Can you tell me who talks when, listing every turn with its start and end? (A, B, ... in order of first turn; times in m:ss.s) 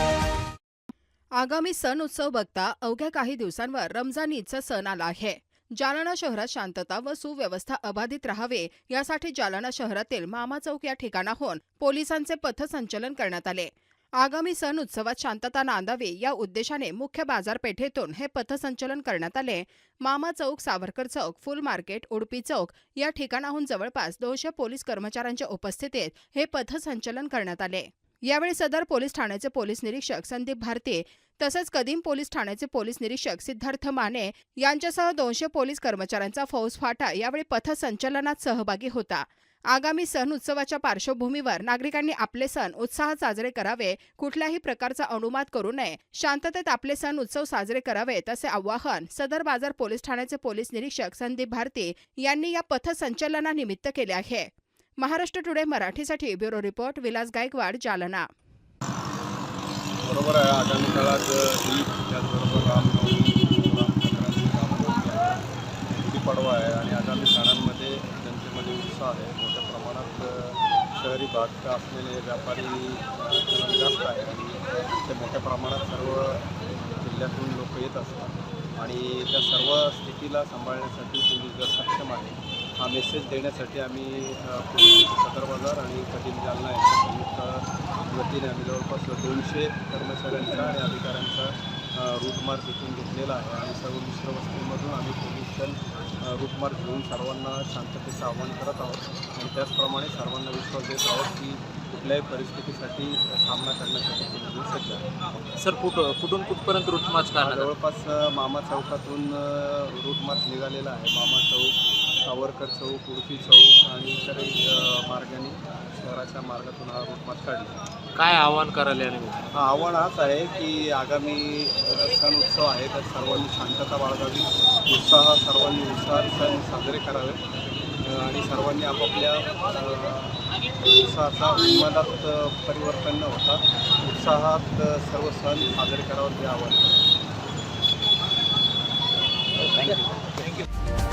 0:01.3-0:58.3 A
1:00.0-1:16.5 B
1:17.0-1:45.0 B
1:45.6-1:47.7 C
1:47.4-1:57.8 B
1:58.1-1:59.5 C
1:59.5-2:07.4 B
2:08.0-2:17.0 B